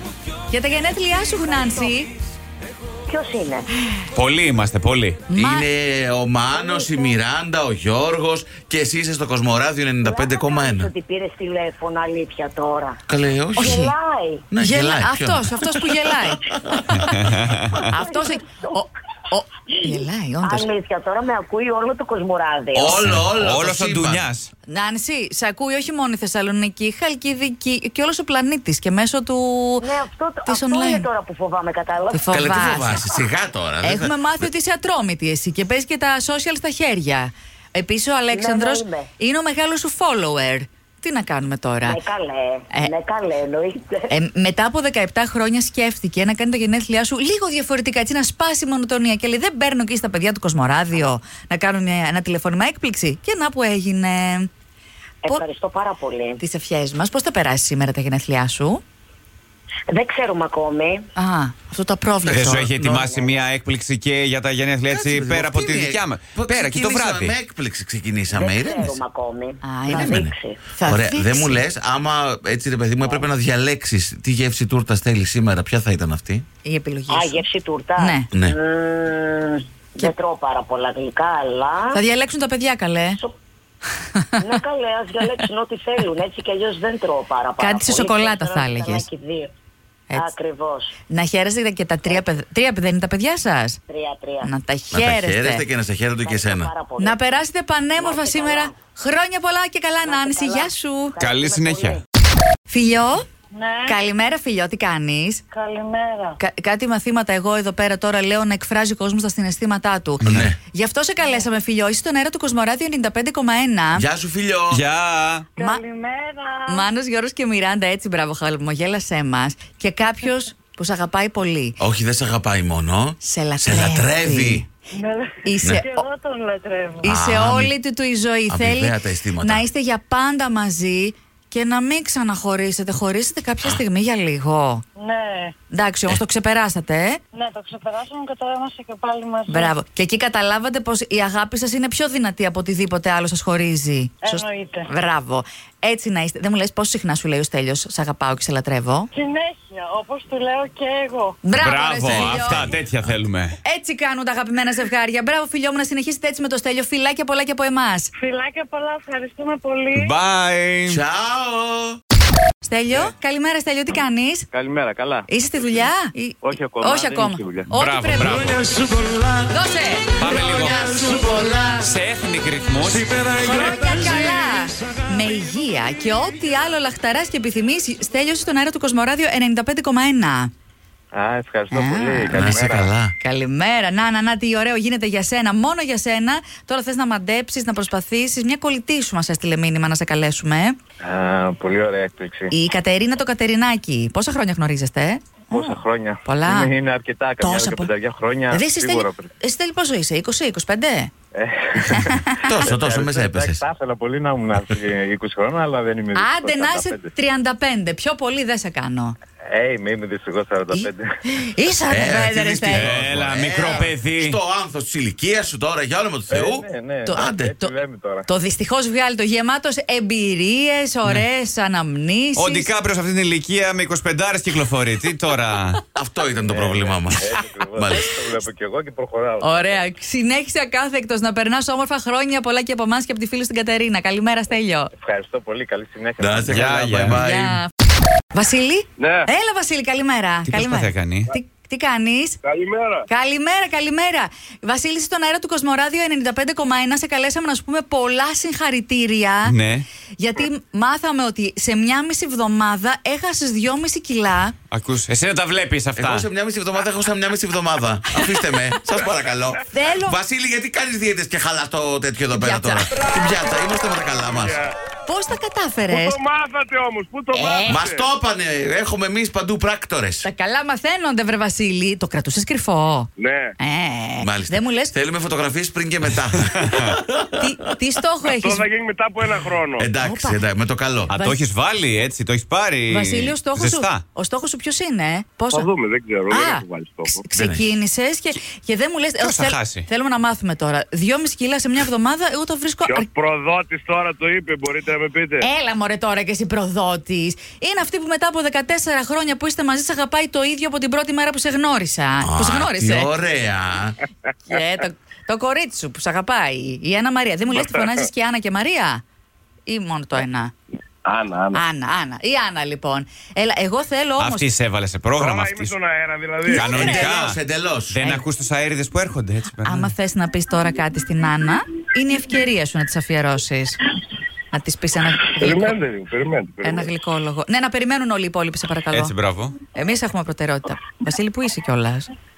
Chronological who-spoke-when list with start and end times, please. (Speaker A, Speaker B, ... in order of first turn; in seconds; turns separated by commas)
Speaker A: 0.5-2.1, Speaker B: 3.1-3.7, Speaker C: 4.1-5.2, Speaker A: 5.3-5.7, Speaker D: 5.3-10.9, Speaker B: 6.5-7.1, Speaker B: 10.0-13.0, Speaker D: 13.1-13.8, Speaker A: 13.6-13.9, Speaker B: 13.6-14.5, Speaker D: 14.5-17.1, Speaker A: 14.6-16.5, Speaker C: 16.9-17.9, Speaker A: 17.9-20.7, Speaker B: 17.9-18.7, Speaker B: 20.4-23.0, Speaker D: 22.7-24.3, Speaker C: 22.9-24.5, Speaker A: 24.7-29.9, Speaker B: 29.8-33.0, Speaker A: 30.4-31.1, Speaker A: 32.1-33.0, Speaker D: 32.3-34.4, Speaker A: 33.8-42.0, Speaker B: 38.3-39.1, Speaker B: 41.8-44.0, Speaker A: 44.1-54.5, Speaker B: 55.2-56.4, Speaker A: 56.4-58.8, Speaker B: 59.9-61.1, Speaker A: 61.1-62.7, Speaker C: 62.3-67.3, Speaker D: 62.4-63.0, Speaker B: 63.0-63.3, Speaker D: 64.9-69.0, Speaker B: 68.3-70.6, Speaker A: 69.6-70.2, Speaker D: 69.9-70.3, Speaker A: 70.7-71.6, Speaker D: 70.8-76.4, Speaker A: 76.6-77.4, Speaker B: 77.1-82.0, Speaker A: 78.0-78.3, Speaker A: 81.9-83.2, Speaker A: 84.1-84.6, Speaker B: 84.4-89.5, Speaker A: 87.6-89.0, Speaker A: 90.1-90.3, Speaker B: 90.1-90.9, Speaker A: 91.1-93.8, Speaker B: 92.1-92.3, Speaker B: 93.9-94.5, Speaker A: 94.4-95.6, Speaker D: 94.9-96.7, Speaker B: 96.2-97.2, Speaker A: 97.0-101.2, Speaker B: 98.0-98.7, Speaker B: 100.0-102.0, Speaker C: 101.2-102.0, Speaker A: 102.7-103.2, Speaker E: 103.5-104.0, Speaker A: 103.8-105.4, Speaker E: 105.5-106.4, Speaker A: 106.4-114.0, Speaker C: 110.2-110.5, Speaker D: 110.2-110.6, Speaker D: 113.9-114.8, Speaker C: 114.7-115.5, Speaker E: 115.5-116.9, Speaker A: 115.6-115.8, Speaker A: 116.7-121.8, Speaker D: 121.8-124.6, Speaker A: 123.2-124.7, Speaker E: 124.9-127.0, Speaker A: 125.4-125.9, Speaker D: 127.0-127.7, Speaker A: 127.0-134.8, Speaker D: 128.5-129.6, Speaker E: 135.0-135.5, Speaker A: 135.7-137.2, Speaker E: 137.3-139.7, Speaker A: 139.5-149.1, Speaker E: 144.2-144.9, Speaker E: 149.1-151.4, Speaker A: 151.4-152.7, Speaker C: 151.5-153.6, Speaker D: 152.1-153.1, Speaker A: 153.6-158.1, Speaker E: 158.2-160.1, Speaker C: 159.9-161.0, Speaker D: 160.8-162.0, Speaker A: 162.6-164.5, Speaker F: 164.5-165.3, Speaker A: 165.3-168.6, Speaker F: 166.4-167.7, Speaker C: 167.7-168.7, Speaker A: 169.4-171.9, Speaker C: 170.2-171.0, Speaker C: 171.8-173.3, Speaker A: 173.4-180.5, Speaker F: 181.1-182.9, Speaker A: 181.7-182.6, Speaker D: 182.3-183.1, Speaker A: 183.2-190.8, Speaker F: 191.0-192.5, Speaker A: 192.5-196.7, Speaker F: 195.5-199.3, Speaker A: 197.4-197.9, Speaker A: 198.5-201.1, Speaker F: 201.3-207.1, Speaker D: 202.3-203.6, Speaker A: 206.1-209.2, Speaker F: 209.5-211.1, Speaker A: 210.7-212.9, Speaker D: 211.9-217.5, Speaker C: 212.7-214.4, Speaker F: 216.3-218.2, Speaker A: 217.1-222.7, Speaker C: 222.3-225.8, Speaker D: 225.9-228.1, Speaker F: 226.4-229.6, Speaker A: 229.4-234.9, Speaker F: 235.0-236.9, Speaker D: 236.2-237.6, Speaker C: 236.5-237.2, Speaker A: 237.1-237.7, Speaker A: 238.3-242.4, Speaker G: 239.0-239.3, Speaker C: 240.5-241.3, Speaker G: 242.4-243.0, Speaker A: 243.1-249.5, Speaker C: 249.4-249.8, Speaker A: 250.2-254.6, Speaker C: 254.7-256.3, Speaker D: 256.0-264.6, Speaker A: 259.7-260.2, Speaker A: 262.3-262.9, Speaker G: 264.3-264.7, Speaker A: 265.1-266.2, Speaker G: 265.9-268.1, Speaker A: 267.3-267.8, Speaker D: 267.6-270.3, Speaker A: 270.2-274.9, Speaker G: 273.2-273.5, Speaker D: 274.2-277.4, Speaker C: 276.6-276.9, Speaker A: 277.4-278.6, Speaker G: 278.3-279.9, Speaker D: 279.2-281.1, Speaker A: 280.0-280.4, Speaker C: 281.1-284.0, Speaker A: 282.9-285.7, Speaker G: 285.5-287.2, Speaker A: 286.3-293.1, Speaker D: 287.4-287.7, Speaker C: 289.2-289.9, Speaker G: 292.8-295.5, Speaker A: 295.4-303.1, Speaker D: 302.2-304.0, Speaker A: 304.5-309.0, Speaker G: 307.5-308.1, Speaker A: 309.6-310.5, Speaker G: 311.0-311.6, Speaker A: 311.5-314.5, Speaker C: 314.2-315.8, Speaker G: 315.1-317.0, Speaker C: 316.4-317.4, Speaker D: 316.6-317.9, Speaker C: 317.9-319.9, Speaker A: 319.6-323.8, Speaker A: 324.5-325.8, Speaker G: 325.4-326.9, Speaker A: 326.6-329.1, Speaker C: 328.9-329.6, Speaker A: 329.7-332.1